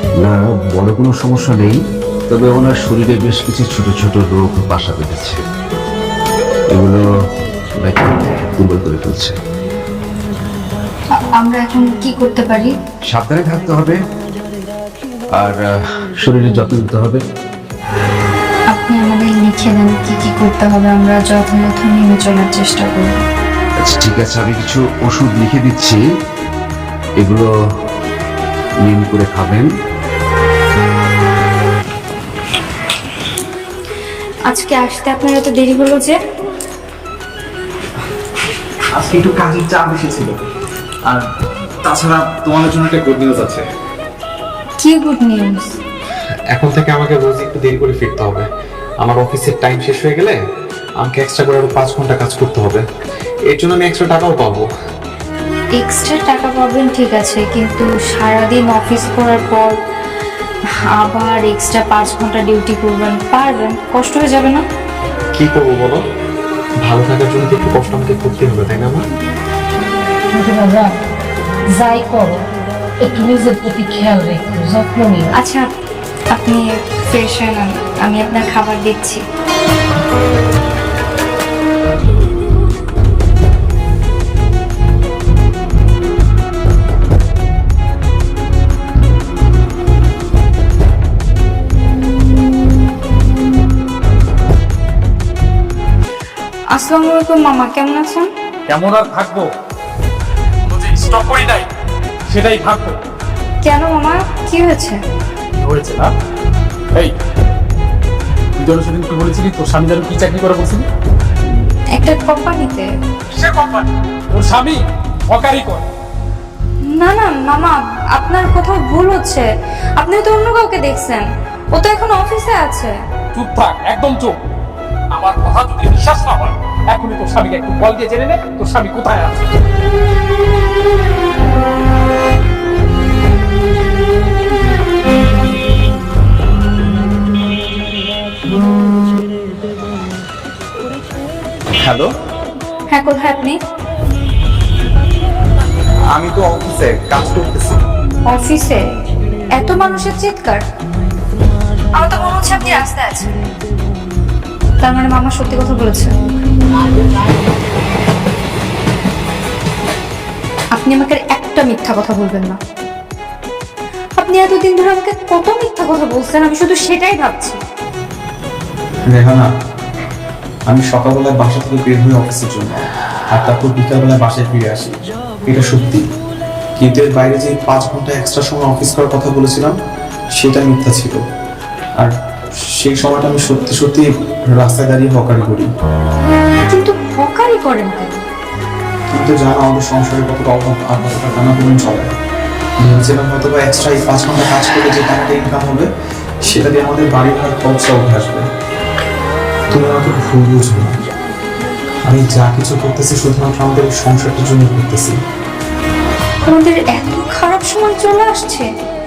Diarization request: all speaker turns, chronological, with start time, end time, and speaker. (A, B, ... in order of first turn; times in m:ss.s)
0:00.2-0:05.4 A
0:06.7-0:07.0 A
0:07.8-0:09.4 A
0:11.2-0:12.7 B
0:13.1-0:14.0 A
0:15.3-0:17.2 A
0:18.7-0:23.2 B
0:23.8-0:26.0 A
0:27.2-0:27.5 A
0:28.8-0:29.7 A
0:34.5-0:36.2 B
0:38.9-0:40.4 C
0:41.8-0:43.6 C
0:44.8-0:45.7 B
0:46.5-0:48.5 C
0:49.0-0:50.4 C
0:51.0-0:52.8 C
0:53.5-0:54.7 C
0:55.8-0:59.7 B
1:01.0-1:04.6 B
1:05.4-1:06.0 C
1:06.8-1:09.0 C
1:10.3-1:11.0 D
1:11.8-1:12.4 D
1:13.0-1:15.3 D
1:15.3-1:15.7 B
1:16.3-1:19.2 B
1:36.7-1:38.3 B
1:38.7-1:39.5 E
1:40.7-1:41.6 E
1:42.3-1:42.9 E
1:43.6-1:45.0 B
1:45.6-1:46.1 E
1:48.6-1:50.8 E
1:51.9-1:52.9 B
1:53.4-1:54.8 E
1:55.3-1:55.8 E
1:56.8-2:02.9 B
2:03.3-2:04.3 E
2:05.2-2:09.5 E
2:21.8-2:22.1 C
2:22.9-2:23.6 B
2:26.1-2:27.8 C
2:28.3-2:28.8 B
2:29.5-2:30.6 B
2:31.9-2:33.3 B
2:34.8-2:36.1 B
2:40.7-2:42.6 B
2:44.2-2:47.6 B
2:49.1-2:49.4 C
2:50.7-2:52.8 C
2:53.3-2:54.9 C
2:55.4-2:56.0 C
2:56.8-2:59.7 C
3:00.3-3:01.2 C
3:02.8-3:05.7 C
3:06.7-3:08.2 B
3:09.1-3:12.1 C
3:12.8-3:15.9 C
3:16.4-3:18.4 C
3:19.7-3:20.9 C
3:22.1-3:25.2 C
3:26.4-3:28.7 B